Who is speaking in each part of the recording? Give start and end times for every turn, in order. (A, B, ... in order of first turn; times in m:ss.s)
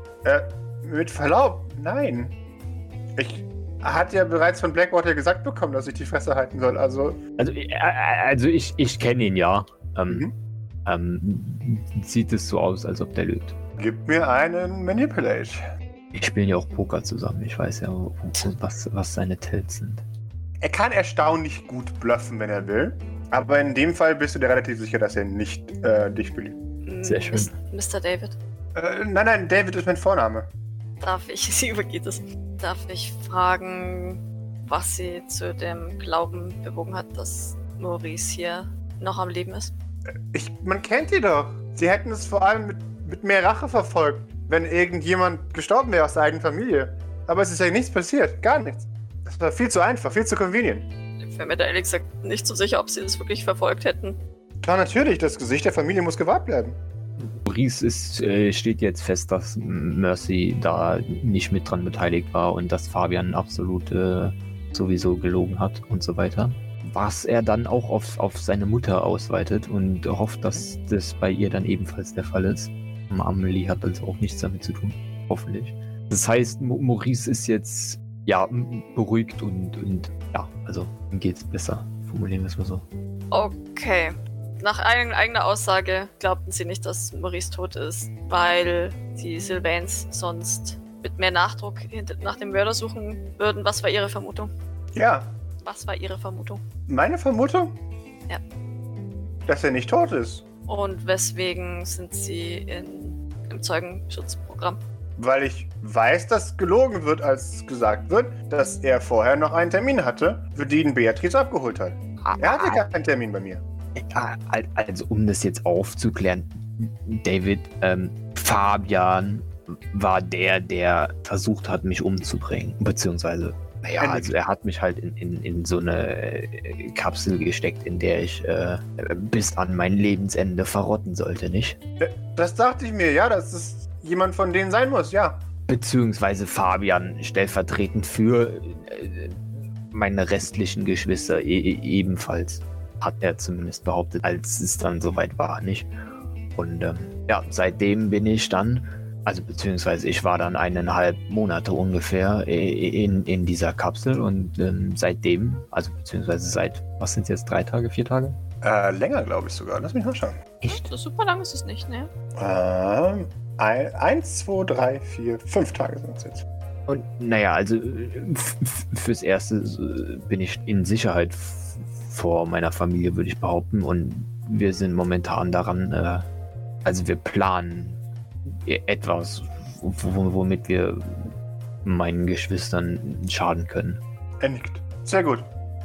0:00.2-0:02.4 A
0:03.2-0:07.2 A
0:07.4-0:10.3 B
0:10.8-0:13.6 B
0:13.8-0:15.6 A
0:16.1-0:20.0 B
0:20.6-0:26.6 A
0:26.8-0:28.4 C
0:27.0-0:27.5 B
0:28.8-0:30.5 A
0:31.0-0:39.7 C
0:40.3-0:50.9 A
0:51.2-0:54.2 C
0:54.6-0:56.8 A
0:57.2-1:22.9 B
1:23.3-1:34.5 C
1:35.0-1:35.3 A
1:35.6-1:36.6 C
1:36.9-1:37.8 A
1:39.5-1:40.4 A
1:40.7-1:44.8 C
1:45.2-1:53.6 A
1:52.2-1:52.8 B
1:54.0-2:11.8 B
2:04.0-2:04.3 A
2:12.0-2:15.4 A
2:15.7-2:25.9 B
2:26.6-2:38.4 B
2:38.6-2:40.4 A
2:40.6-2:40.9 B
2:40.7-2:42.1 C
2:42.4-2:46.4 A
2:46.9-2:56.3 B
2:56.8-3:04.0 B
3:04.4-3:05.5 A